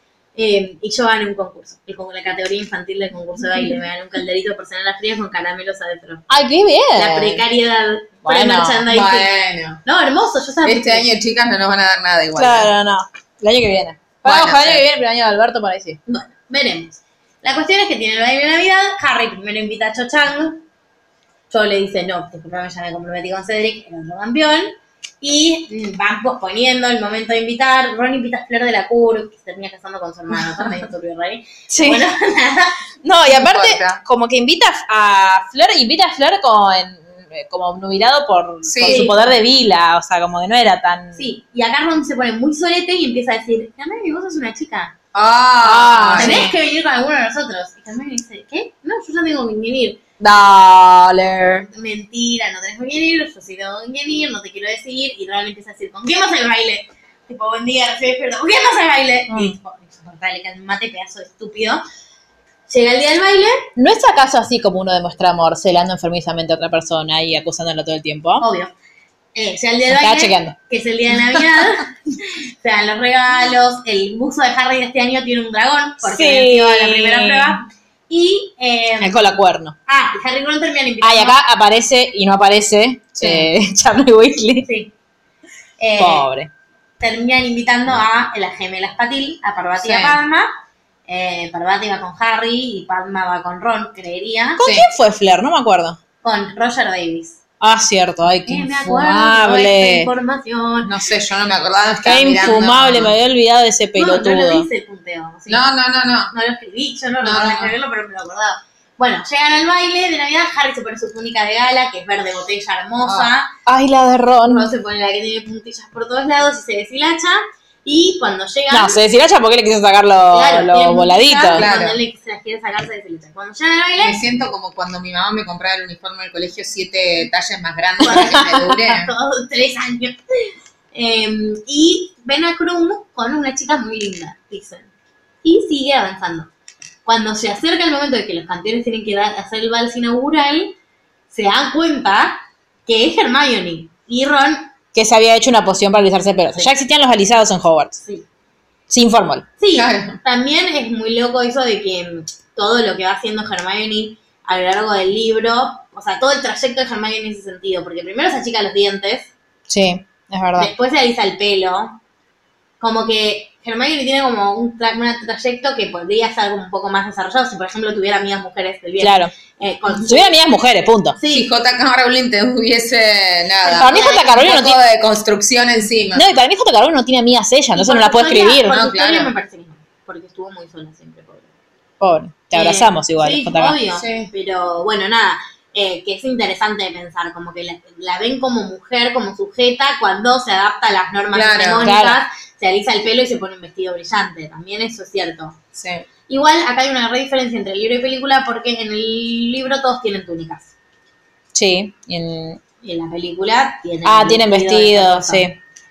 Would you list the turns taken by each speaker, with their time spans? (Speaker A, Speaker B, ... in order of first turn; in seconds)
Speaker A: 0.3-6.2, 6.9-9.3, 9.8-11.1, 16.1-20.6, 21.5-32.8, 38.9-39.3, 41.1-44.9, 46.1-50.0, 51.7-61.8, 62.7-63.6, 68.4-68.7, 69.3-79.2, 79.9-81.4, 84.6-84.9, 85.8-86.3, 87.0-90.5, 91.1-94.6, 96.2-97.4, 98.4-100.9, 104.0-105.6, 106.3-113.5, 114.5-119.0, 120.3-124.2, 128.0-130.2, 130.9-134.9, 135.4-136.5, 137.0-140.8, 141.3-144.7, 149.6-159.3, 160.6-162.0, 162.8-170.3, 171.2-171.5, 173.6-174.4, 177.7-181.5, 182.5-195.6, 196.3-200.7, 202.8-205.5
Speaker B: 6.3-7.4, 8.2-8.8, 12.4-16.0, 31.7-32.1, 33.0-41.2, 45.6-46.5, 50.2-51.7, 59.3-59.5, 63.8-68.5, 69.9-70.5, 71.3-71.6, 76.0-77.6, 79.0-79.7, 81.0-84.7, 86.0-86.5, 94.6-96.0, 97.6-100.1, 102.0-104.7, 113.7-114.7, 118.7-121.7, 128.1-128.7, 144.9-148.0, 148.9-149.4, 159.7-160.7, 169.0-169.3, 170.0-171.2, 173.7-174.8, 176.1-178.8, 182.0-183.8, 191.8-192.2, 201.5-202.6, 204.0-205.6
Speaker C: 8.9-9.8, 10.6-12.7, 14.2-14.8, 33.3-34.0, 38.6-39.1, 45.1-46.5, 83.2-83.5, 89.8-90.2, 94.6-94.9, 100.8-103.1, 105.5-106.3, 107.2-107.7, 113.0-113.3, 121.5-122.0, 124.0-129.1, 149.7-150.2, 171.3-176.2, 178.7-179.3, 183.9-184.3, 191.3-191.9, 195.7-196.0